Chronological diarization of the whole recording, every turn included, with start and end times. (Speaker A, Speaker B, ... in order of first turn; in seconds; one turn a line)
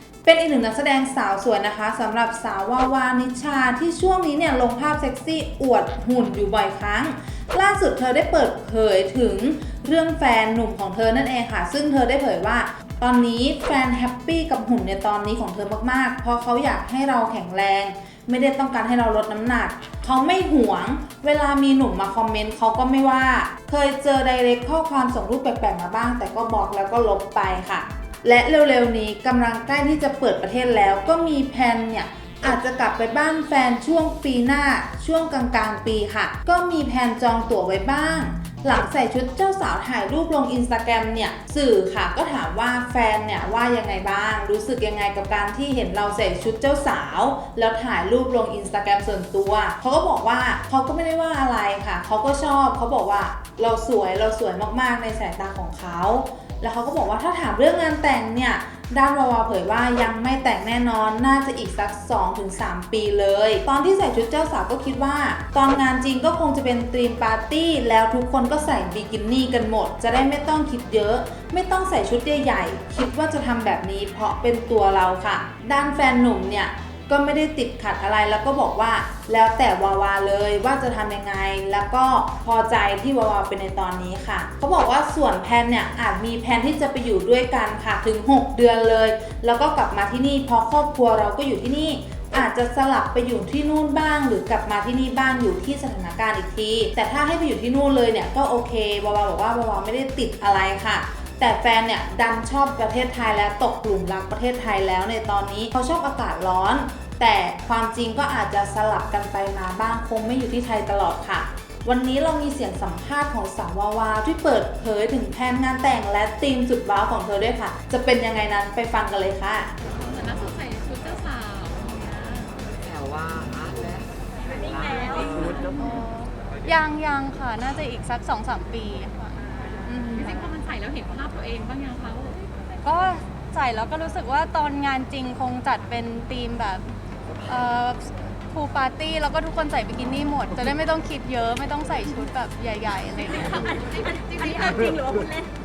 Speaker A: 0.2-119.7
Speaker B: 119.8-122.6
Speaker C: 122.8-125.8
Speaker B: 124.8-125.8
Speaker D: 125.8-130.5
Speaker B: 130.1-132.5
Speaker D: 132.8-136.9
Speaker D: 137.4-143.7
Speaker B: 143.3-145.3